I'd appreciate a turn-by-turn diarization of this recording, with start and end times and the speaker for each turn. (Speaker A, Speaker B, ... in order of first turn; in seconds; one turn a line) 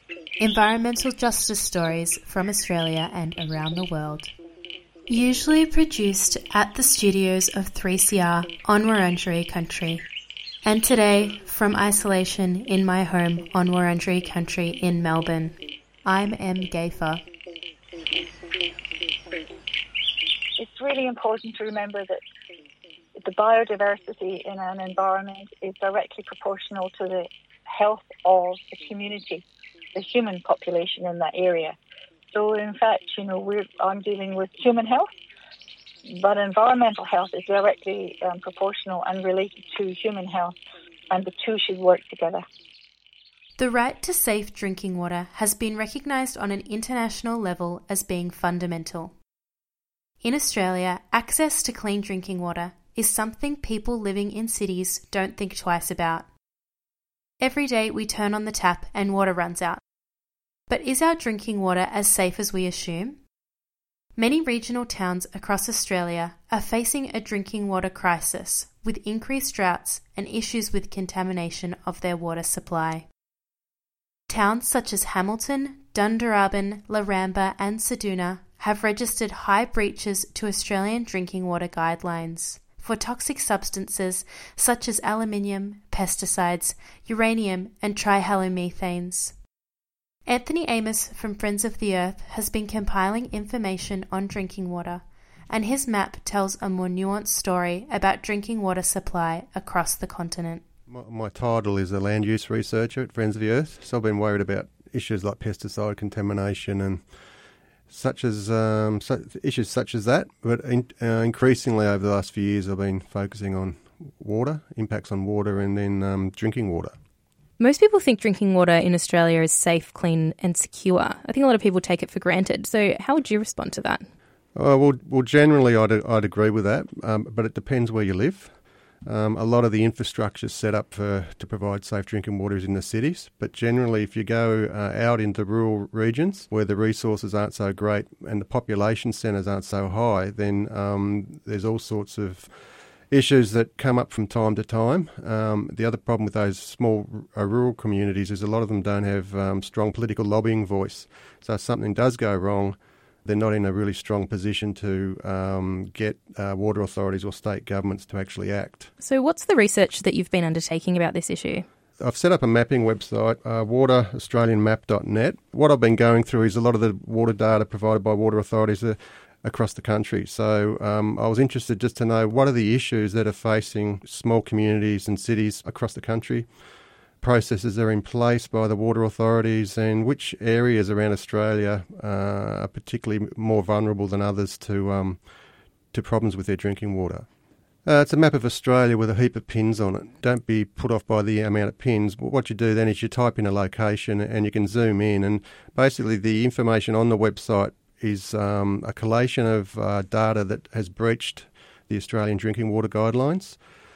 Speaker A: 0.4-4.3
Speaker A: 5.1-10.1
Speaker A: 10.6-17.2
Speaker B: 20.6-22.2
Speaker B: 23.2-31.8
Speaker B: 32.3-35.1
Speaker B: 36.1-40.6
Speaker B: 41.1-42.5
Speaker A: 43.6-49.1
Speaker A: 50.2-56.3
Speaker A: 57.4-59.8
Speaker A: 60.7-63.2
Speaker A: 64.2-73.1
Speaker A: 74.3-89.4
Speaker A: 90.3-100.6
Speaker C: 100.9-107.0
Speaker C: 107.9-116.9
Speaker D: 117.6-124.1
Speaker C: 124.5-142.6
Speaker C: 143.1-158.9
Speaker D: 159.0-161.7
Speaker C: 162.0-176.5
Speaker C: 177.2-185.2
Speaker C: 185.9-187.3
Speaker C: 187.8-203.6